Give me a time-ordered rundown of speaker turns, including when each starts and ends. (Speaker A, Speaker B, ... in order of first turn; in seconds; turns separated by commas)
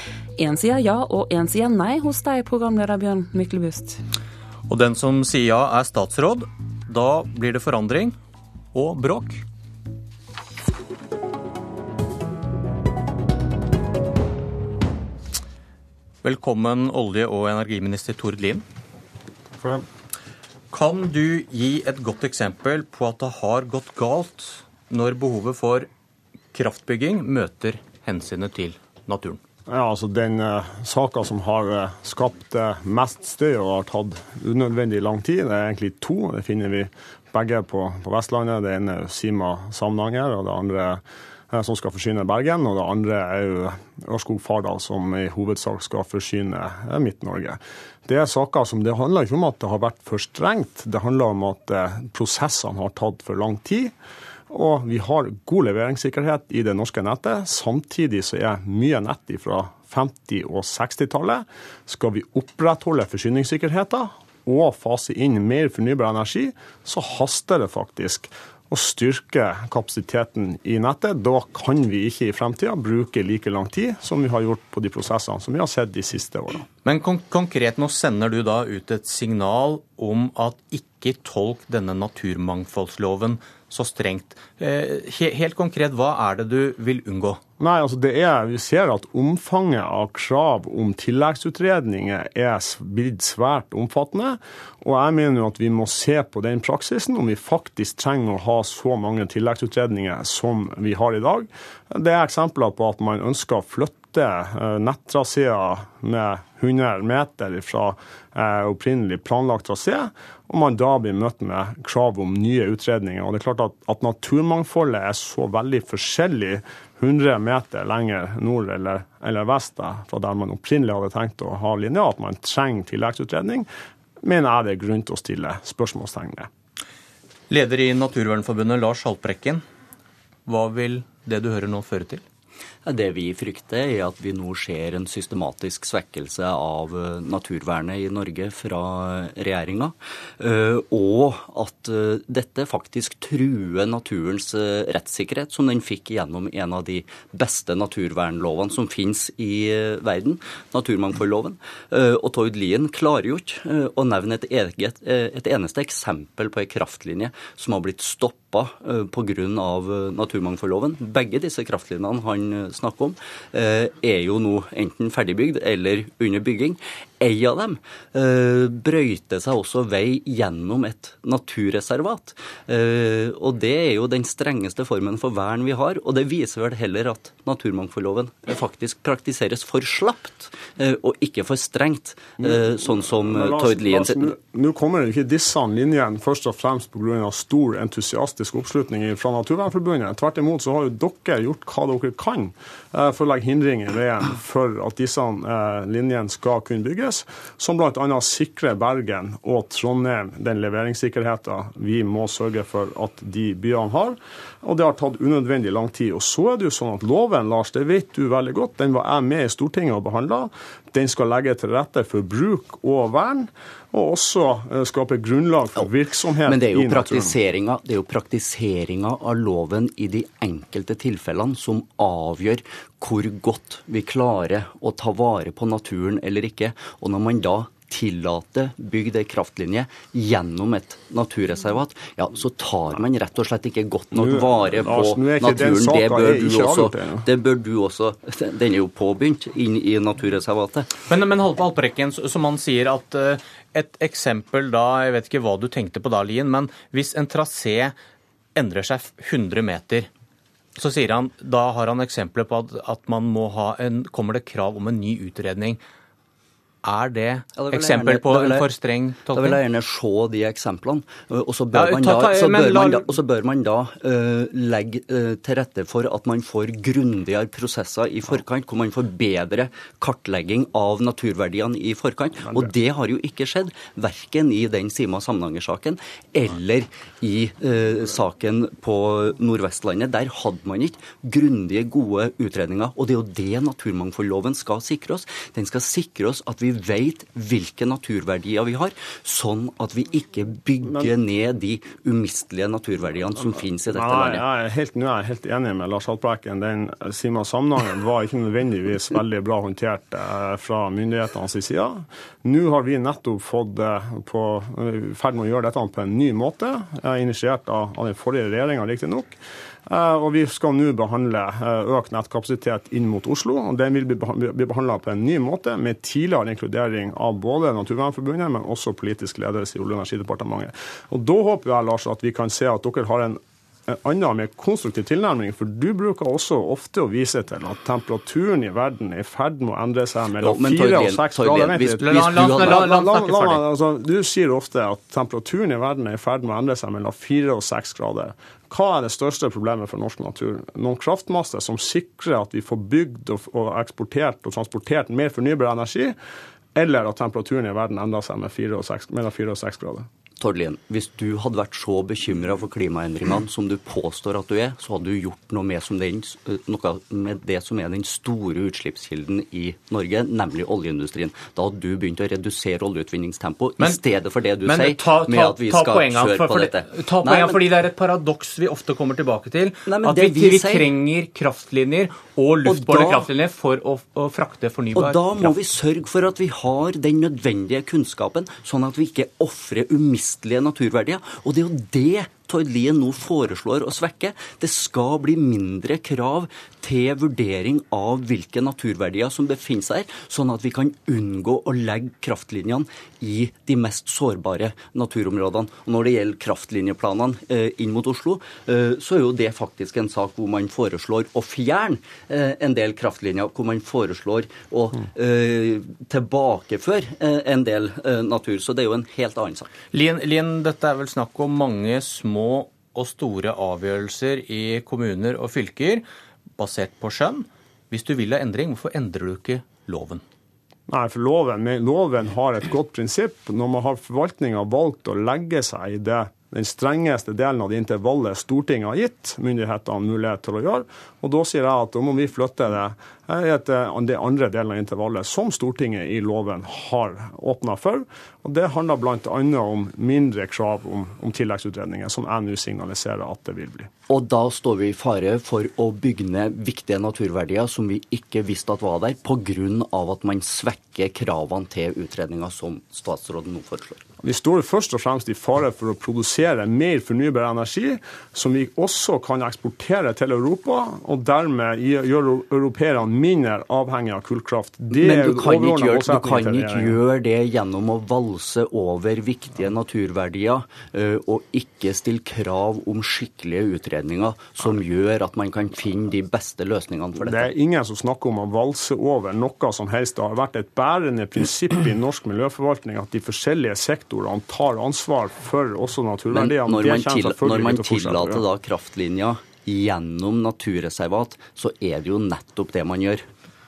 Speaker A: 0.4-4.0, Speaker B: 4.7-8.2, Speaker B: 8.7-9.4, Speaker B: 16.2-18.6, Speaker B: 20.7-25.9, Speaker B: 26.5-29.4, Speaker C: 29.7-53.9, Speaker C: 54.5-76.7, Speaker B: 76.8-87.4, Speaker C: 87.6-123.7, Speaker C: 124.2-126.5, Speaker B: 127.5-129.6, Speaker B: 130.4-132.2, Speaker D: 132.8-184.3, Speaker C: 182.4-217.3, Speaker D: 216.4-240.9, Speaker C: 234.1-237.3, Speaker B: 241.0-247.9, Speaker B: 248.6-250.1, Speaker B: 250.8-255.8, Speaker B: 256.8-259.6, Speaker D: 257.6-258.7, Speaker D: 259.2-294.4, Speaker B: 261.7-263.1, Speaker C: 290.8-291.1, Speaker C: 293.4-309.3, Speaker C: 309.9-346.1, Speaker D: 330.4-332.8, Speaker B: 332.0-333.6, Speaker C: 346.7-350.1, Speaker D: 350.4-367.7, Speaker B: 364.6-375.5, Speaker D: 369.9-370.9, Speaker D: 372.6-373.3, Speaker D: 374.9-409.7, Speaker B: 409.9-416.0, Speaker B: 416.6-420.2, Speaker C: 420.9-443.9, Speaker D: 444.1-454.0, Speaker C: 454.2-467.0, Speaker D: 464.9-477.5, Speaker C: 477.2-488.4, Speaker D: 486.3-493.2